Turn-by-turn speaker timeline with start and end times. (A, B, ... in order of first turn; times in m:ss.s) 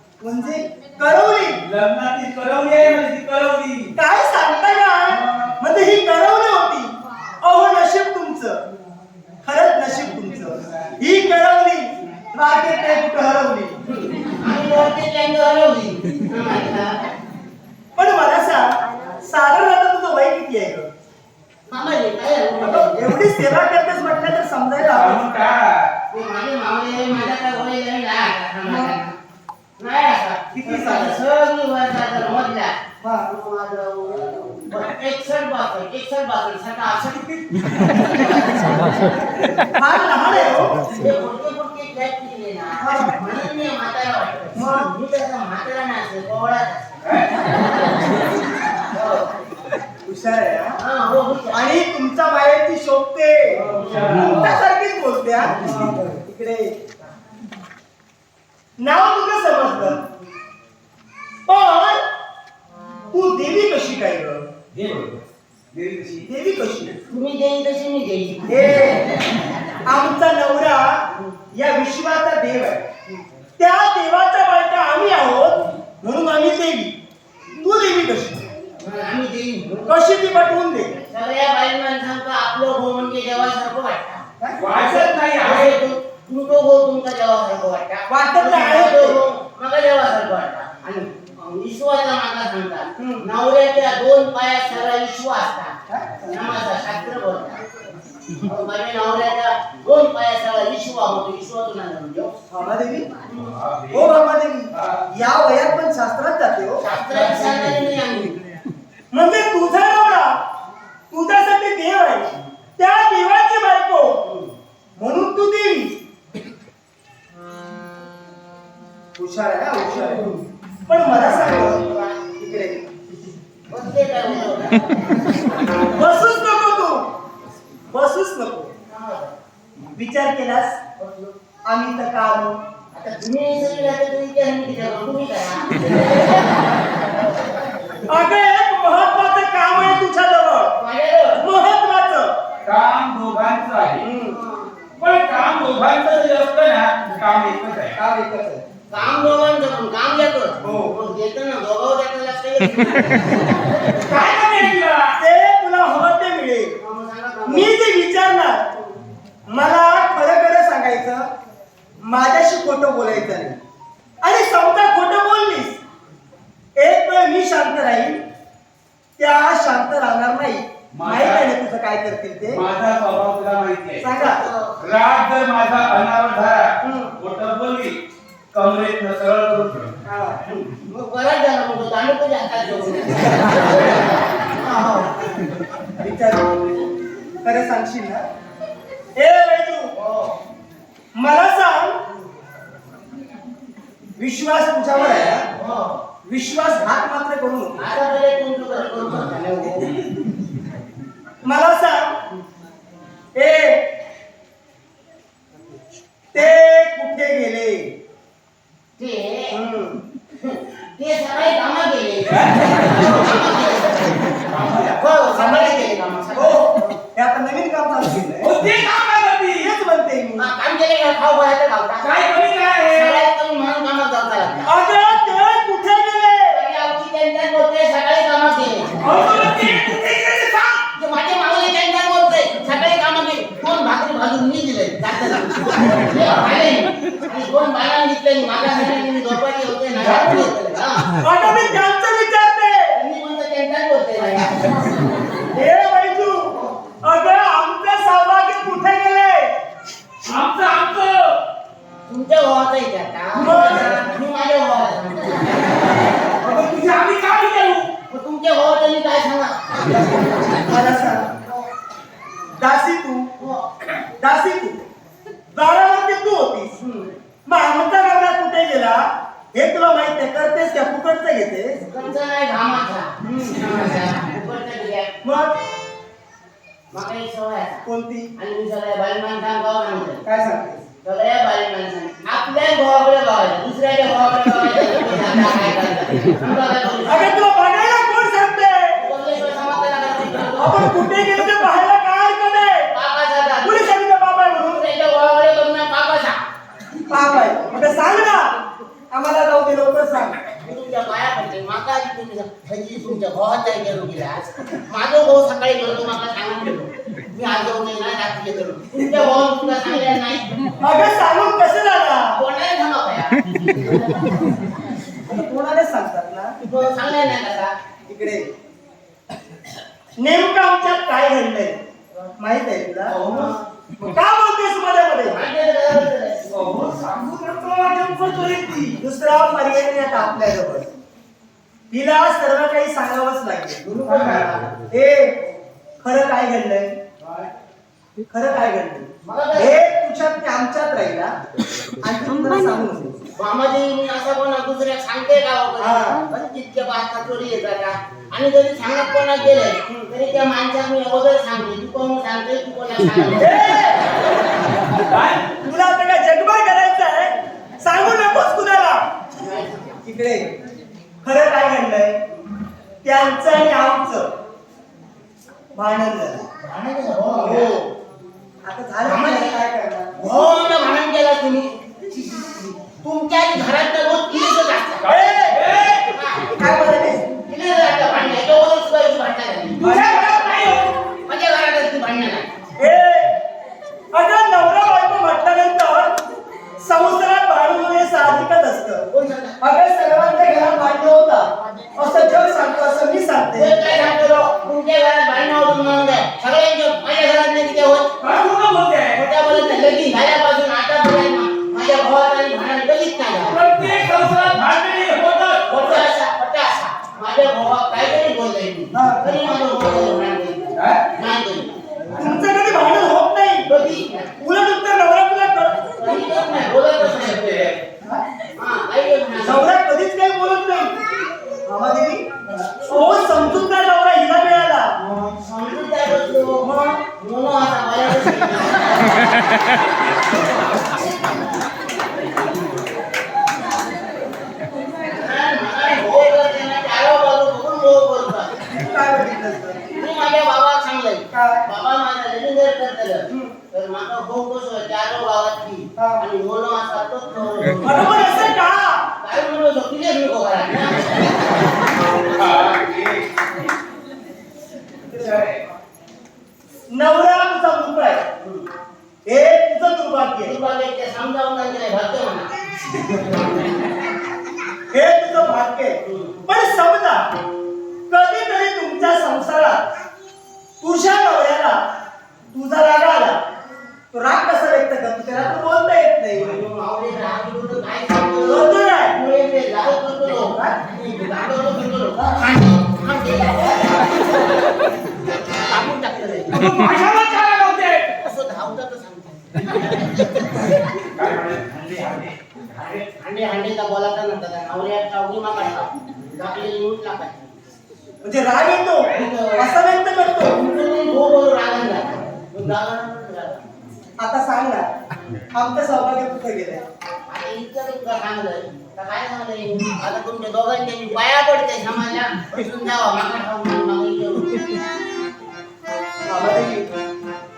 0:00.2-0:01.6 A
0:01.6-0:03.9 B
0:04.0-0:08.6 A
0:09.4-0:13.8 A
0:13.8-0:17.0 C
0:18.0-0:20.9 A
0:21.7-0:23.1 C
0:22.6-0:25.2 A
0:24.8-0:25.9 B
0:26.1-0:29.2 C
0:28.6-0:28.9 A
0:29.8-0:37.4 C
0:30.5-0:31.2 A
0:33.0-0:33.3 A
0:38.0-0:38.9 C
0:39.7-0:40.9 A
0:40.8-0:47.0 C
0:42.8-0:43.2 A
0:44.5-0:44.9 A
0:47.0-0:47.4 B
0:48.9-0:49.3 C
0:50.0-0:50.8 A
0:50.8-0:51.6 C
0:51.5-0:56.8 A
0:53.5-0:54.6 B
0:53.8-0:54.2 C
0:55.6-0:56.0 B
0:58.8-1:00.0 A
1:01.5-1:02.0 A
1:03.1-1:04.4 A
1:04.7-1:05.2 B
1:05.7-1:06.3 B
1:06.2-1:07.0 A
1:07.1-1:08.5 C
1:08.5-1:09.1 A
1:09.8-1:12.8 A
1:13.6-1:17.0 A
1:17.6-1:18.4 A
1:18.8-1:19.9 C
1:19.9-1:20.9 A
1:20.9-1:24.2 C
1:24.4-1:24.8 A
1:24.6-1:25.8 B
1:24.8-1:37.6 C
1:28.1-1:29.2 A
1:33.0-1:33.2 A
1:35.9-1:36.3 A
1:38.4-1:42.4 C
1:42.5-1:43.1 A
1:43.2-1:43.6 C
1:43.4-1:44.2 B
1:43.9-1:46.8 A
1:44.7-1:45.0 B
1:46.8-1:48.4 C
1:47.1-1:47.8 B
1:49.1-1:50.4 A
1:51.1-1:54.2 A
1:54.2-1:54.5 C
1:55.0-1:56.0 A
1:59.2-2:00.3 A
1:59.8-2:00.4 C
2:00.9-2:02.8 A
2:01.1-2:02.2 C
2:03.7-2:05.8 C
2:05.9-2:07.1 A
2:07.9-2:08.7 A
2:08.9-2:09.4 C
2:09.8-2:10.8 A
2:11.0-2:11.4 C
2:11.6-2:12.6 A
2:12.9-2:16.9 C
2:17.7-2:18.0 C
2:18.1-2:20.7 A
2:20.8-2:21.4 C
2:21.4-2:22.3 A
2:22.6-2:24.0 B
2:24.0-2:24.4 A
2:24.1-2:24.7 C
2:25.0-2:28.0 B
2:28.0-2:28.6 A
2:28.9-2:34.4 C
2:30.6-2:30.9 A
2:34.0-2:35.2 B
2:35.2-2:36.7 A
2:36.8-2:37.7 C
2:37.4-2:38.7 A
2:39.5-2:41.3 A
2:42.0-2:43.6 A
2:44.2-2:45.8 A
2:46.8-2:48.2 A
2:49.2-2:52.6 A
2:50.9-2:51.4 B
2:52.5-2:54.1 B
2:54.0-2:54.4 A
2:54.1-2:54.8 C
2:54.8-2:58.0 B
2:56.8-2:57.1 A
2:58.5-3:00.0 B
3:00.0-3:00.4 A
3:00.5-3:04.0 C
3:04.6-3:05.1 C
3:06.0-3:06.6 A
3:07.4-3:08.2 A
3:09.2-3:09.9 A
3:09.9-3:10.4 C
3:11.2-3:12.0 A
3:14.2-3:15.4 A
3:14.9-3:16.0 C
3:16.2-3:17.8 A
3:17.8-3:19.9 C
3:21.4-3:22.1 A
3:23.3-3:23.9 A
3:26.3-3:27.9 A
3:29.0-3:29.6 C
3:29.5-3:30.0 A
3:30.4-3:34.3 C
3:32.3-3:33.2 B
3:34.5-3:35.0 B
3:34.9-3:36.9 C
3:35.3-3:38.5 A
3:38.4-3:39.7 B
3:39.5-3:40.5 A
3:40.4-3:42.2 C
3:42.0-3:43.2 B
3:42.8-3:44.7 C
3:44.6-3:46.6 A
3:46.5-3:49.0 C
3:49.0-3:50.8 B
3:50.9-4:01.1 C
4:01.1-4:03.0 A
4:02.9-4:05.4 C
4:05.5-4:09.5 A
4:10.2-4:11.4 B
4:12.1-4:16.0 C
4:13.3-4:14.1 A
4:16.4-4:17.9 B
4:18.1-4:20.1 C
4:20.6-4:21.3 A
4:22.6-4:23.3 A
4:23.4-4:23.7 C
4:24.2-4:24.8 A
4:25.5-4:26.8 A
4:26.8-4:27.2 C
4:27.4-4:31.8 A
4:31.8-4:35.1 C
4:33.3-4:33.6 A
4:35.2-4:35.5 A
4:36.9-4:37.8 C
4:37.8-4:38.3 A
4:38.4-4:40.2 C
4:40.2-4:40.8 A
4:41.0-4:47.3 C
4:47.1-4:49.0 A
4:49.0-4:50.8 C
4:50.6-4:52.9 A
4:52.9-4:54.0 C
4:53.6-4:54.8 A
4:54.5-4:56.4 C
4:57.1-4:58.5 A
4:59.1-5:00.4 A
5:00.6-5:10.7 C
5:10.8-5:12.4 A
5:12.3-5:14.2 C
5:15.2-5:16.6 A
5:16.6-5:17.7 C
5:18.1-5:18.5 A
5:20.2-5:21.8 A
5:22.4-5:23.2 A
5:23.1-5:23.5 B
5:23.3-5:23.6 C
5:24.0-5:25.4 A
5:25.2-5:26.5 C
5:26.5-5:29.0 B
5:29.0-5:30.9 A
5:31.9-5:33.8 A
5:33.8-5:34.7 C
5:34.0-5:34.5 B
5:34.9-5:35.4 A
5:36.0-5:36.9 A
5:37.2-5:37.5 C
5:38.3-5:41.3 A
5:39.2-5:39.8 C
5:42.0-5:43.2 A
5:43.4-5:54.0 C
5:45.8-5:46.2 A
5:53.4-5:54.1 A
5:54.9-5:55.5 B
5:55.6-5:59.0 A
5:59.4-6:00.0 C
6:00.0-6:00.5 A
6:01.2-6:02.2 A
6:03.0-6:04.3 A
6:05.7-6:06.4 A
6:06.6-6:07.8 C
6:07.3-6:07.9 A
6:08.6-6:10.1 A
6:09.0-6:09.6 C
6:10.1-6:15.1 C
6:15.0-6:16.1 B
6:15.1-6:15.6 A
6:16.1-6:16.4 C
6:16.4-6:17.2 A
6:17.4-6:19.9 C
6:19.8-6:20.9 B
6:19.8-6:20.5 A
6:21.2-6:22.5 C
6:22.8-6:23.3 A
6:24.1-6:26.2 A
6:26.8-6:29.0 A
6:29.1-6:29.6 C
6:29.6-6:33.9 A
6:33.5-6:38.2 C
6:38.2-6:39.2 B
6:39.1-6:43.6 C
6:43.4-6:46.1 B
6:45.7-6:51.8 C
6:48.9-6:49.2 A
6:50.7-6:51.1 B
6:52.1-6:53.7 A
6:53.6-6:54.3 C
6:54.4-6:56.3 A
6:56.0-6:57.8 C
6:57.0-6:57.8 B
6:58.5-6:59.7 C
6:59.4-7:00.9 A
7:01.6-7:02.2 A
7:02.8-7:04.9 A
7:05.0-7:09.4 C
7:06.6-7:07.0 A
7:15.2-7:18.6 C
7:18.7-7:19.8 A
7:19.9-7:28.3 C
7:21.3-7:21.6 A
7:23.3-7:23.5 A
7:26.0-7:26.2 A
7:27.8-7:29.0 A
7:29.2-7:32.8 C
7:32.2-7:33.3 B
7:35.1-7:35.6 B
7:36.9-7:38.2 A
7:38.4-7:38.7 C
7:39.2-7:40.6 A
7:40.4-7:42.5 C
7:44.9-7:47.2 A
7:46.0-7:46.4 C
7:48.1-7:49.8 A
7:50.8-7:51.8 A
7:52.5-7:53.4 A
7:54.1-7:56.6 A
7:56.3-8:04.4 C
7:58.4-7:59.1 A
8:00.4-8:00.8 A
8:05.6-8:06.6 C
8:06.5-8:08.1 B
8:08.2-8:10.2 C
8:11.0-8:13.0 B
8:12.7-8:17.5 C
8:18.2-8:20.6 A
8:19.1-8:19.7 C
8:20.4-8:23.7 C
8:24.2-8:24.9 A
8:25.5-8:26.8 A
8:27.3-8:34.6 C
8:36.3-8:36.9 A